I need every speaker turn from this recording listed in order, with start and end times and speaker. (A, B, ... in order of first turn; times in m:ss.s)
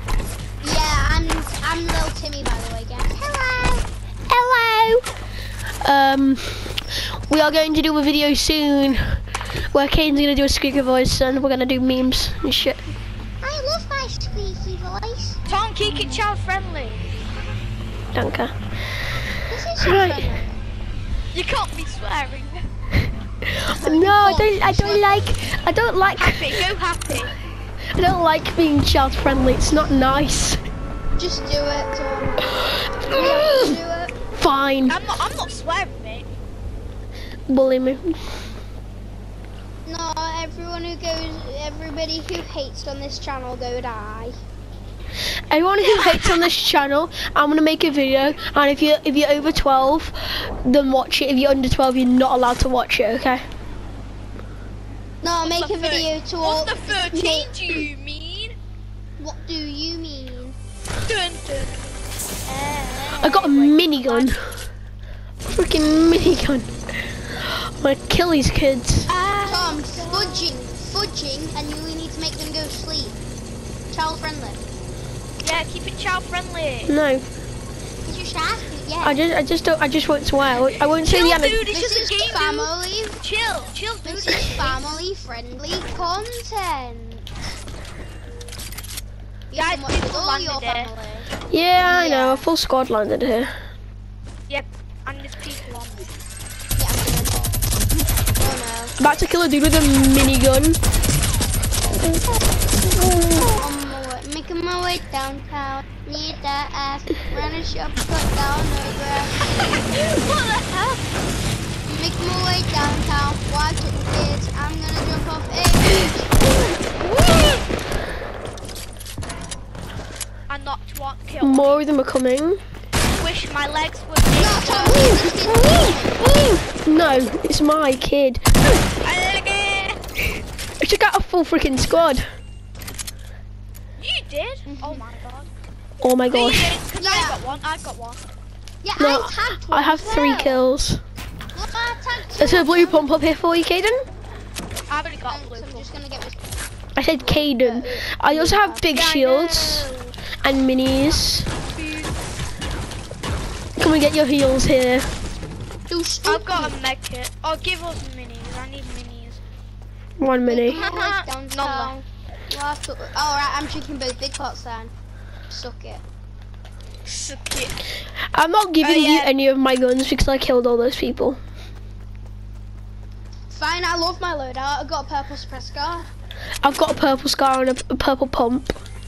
0:00.6-0:03.8 A
0:04.3-0:05.0 B
0:05.8-0:06.8 B
0:07.3-0:09.2 B
0:09.7-0:12.8 B
0:13.4-0:15.4 A
0:15.4-0:17.2 C
0:18.1-0:18.5 B
0:19.5-0:20.6 A
0:19.8-0:20.3 B
0:21.3-0:22.7 C
0:23.0-0:26.6 B
0:23.7-0:25.2 A
0:26.2-0:27.3 C
0:28.0-0:30.6 B
0:31.2-0:32.5 A
0:32.5-0:33.8 B
0:33.1-0:34.1 A
0:34.4-0:35.0 B
0:34.9-0:36.3 C
0:37.5-0:38.2 B
0:39.8-0:44.3 A
0:45.5-0:53.4 B
0:45.8-0:46.5 C
0:55.2-0:57.6 A
0:55.4-0:58.6 C
0:59.2-1:00.6 A
1:01.0-1:01.9 C
1:02.4-1:04.3 C
1:03.2-1:04.5 B
1:05.4-1:06.7 B
1:07.4-1:09.1 B
1:09.1-1:11.0 C
1:09.4-1:13.2 A
1:13.9-1:14.7 A
1:15.4-1:16.9 C
1:16.8-1:17.3 B
1:18.0-1:19.2 A
1:19.0-1:21.7 B
1:21.0-1:24.8 C
1:21.7-1:23.2 A
1:24.0-1:27.3 A
1:29.5-1:31.3 A
1:29.5-1:30.9 C
1:31.5-1:33.5 B
1:31.8-1:32.5 A
1:34.5-1:36.2 C
1:36.8-1:37.5 A
1:38.4-1:39.0 A
1:39.0-1:40.8 B
1:43.1-1:43.4 B
1:43.5-1:49.4 A
1:49.6-1:51.1 C
1:51.9-1:56.4 A
1:56.5-1:57.6 C
2:00.5-2:01.8 C
2:01.4-2:02.6 B
2:03.1-2:05.1 C
2:04.4-2:06.2 A
2:05.0-2:08.4 B
2:09.0-2:10.0 C
2:10.8-2:12.2 B
2:14.0-2:15.5 C
2:14.7-2:15.1 A
2:16.0-2:16.8 B
2:16.3-2:18.2 C
2:17.0-2:17.4 A
2:18.8-2:20.6 A
2:19.0-2:21.0 B
2:21.5-2:23.1 A
2:22.4-2:24.0 B
2:24.9-2:25.9 C
2:25.2-2:26.4 A
2:27.0-2:29.9 B
2:27.2-2:28.9 A
2:28.9-2:30.2 C
2:30.4-2:31.5 B
2:31.7-2:32.2 C
2:33.8-2:35.1 B
2:35.9-2:36.8 A
2:36.2-2:39.4 C
2:40.2-2:40.8 B
2:40.4-2:44.9 A
2:40.7-2:42.0 C
2:45.5-2:46.0 A
2:47.1-2:47.8 C
2:48.3-2:51.4 B
2:48.8-2:49.3 C
2:53.5-2:56.1 A
2:56.6-2:58.8 B